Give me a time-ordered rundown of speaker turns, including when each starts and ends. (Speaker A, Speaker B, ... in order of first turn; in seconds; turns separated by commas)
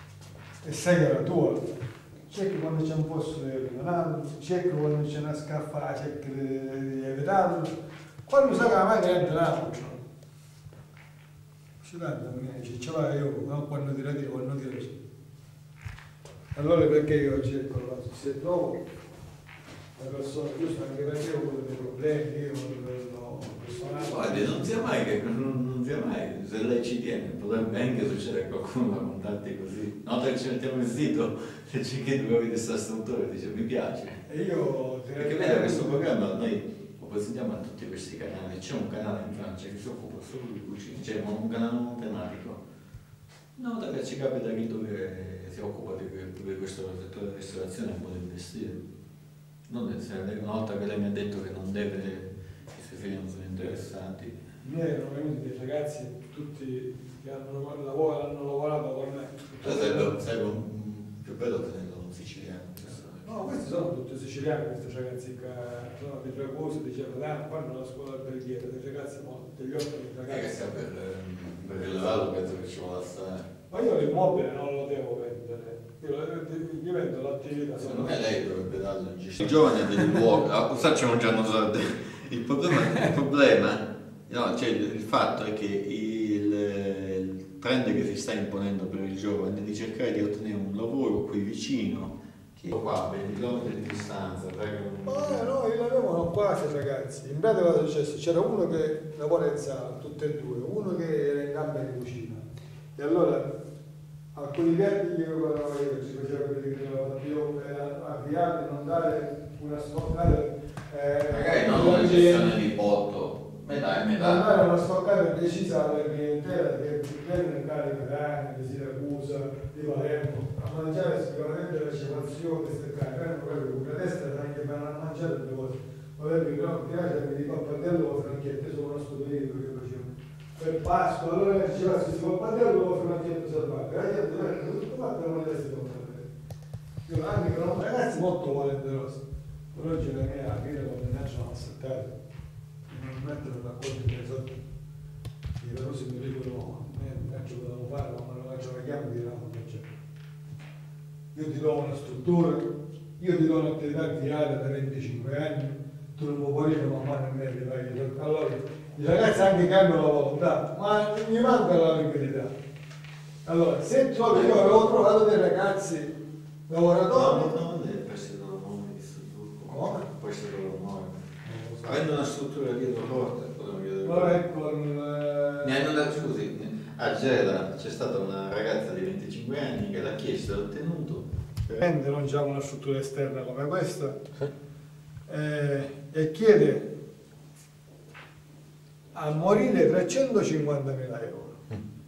Speaker A: 0.6-10.0, Speaker A: 11.8-15.0, Speaker A: 16.5-18.8, Speaker A: 19.9-24.9, Speaker B: 24.0-34.2, Speaker A: 34.2-36.1, Speaker B: 35.2-42.6, Speaker B: 43.5-48.9, Speaker B: 49.7-54.4, Speaker A: 54.6-60.2, Speaker B: 59.6-63.6, Speaker A: 63.2-70.8, Speaker B: 70.3-73.5, Speaker A: 73.7-78.3, Speaker B: 77.8-95.5, Speaker A: 95.0-102.4, Speaker A: 103.0-103.6, Speaker A: 104.3-112.6, Speaker B: 111.3-114.5, Speaker A: 114.1-136.3, Speaker A: 137.1-142.1, Speaker A: 142.9-144.6, Speaker A: 145.6-149.9, Speaker A: 151.3-162.5, Speaker A: 163.4-166.2, Speaker B: 164.3-164.9, Speaker A: 166.7-167.6, Speaker B: 167.1-171.3, Speaker A: 169.7-170.1, Speaker A: 171.4-172.1, Speaker B: 171.8-174.4, Speaker A: 174.0-176.0, Speaker B: 175.6-181.8, Speaker A: 181.7-184.2, Speaker A: 185.3-187.0, Speaker A: 189.1-191.6